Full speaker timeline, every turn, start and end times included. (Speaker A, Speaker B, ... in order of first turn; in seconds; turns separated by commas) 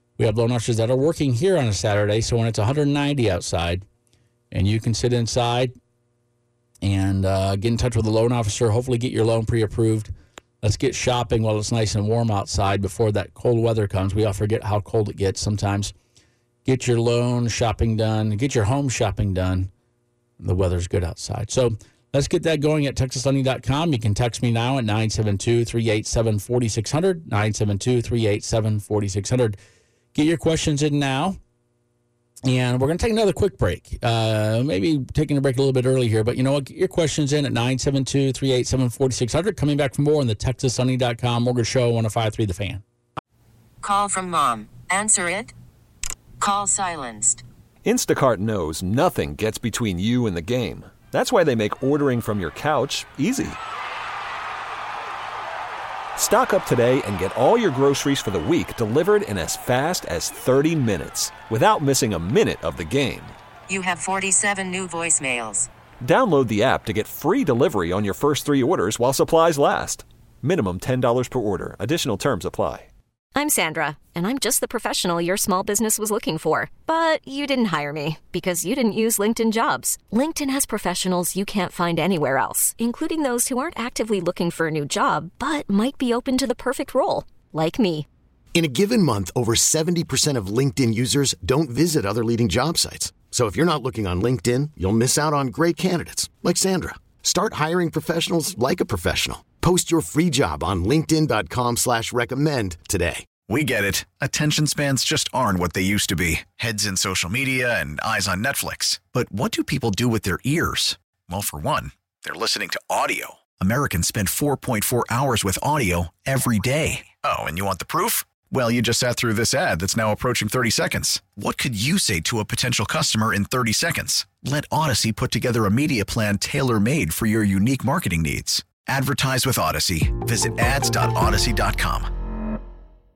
Speaker A: 0.2-3.9, Speaker A: 4.5-5.7, Speaker A: 6.8-10.1, Speaker A: 10.6-15.9, Speaker A: 16.6-19.7, Speaker A: 20.4-29.6, Speaker A: 30.1-31.4, Speaker A: 32.5-42.8, Speaker B: 43.8-45.5, Speaker B: 46.4-47.4, Speaker C: 47.9-53.6, Speaker C: 56.2-63.3, Speaker B: 63.7-65.7, Speaker C: 66.0-72.9, Speaker D: 73.3-88.1, Speaker E: 88.5-103.4, Speaker F: 103.4-132.1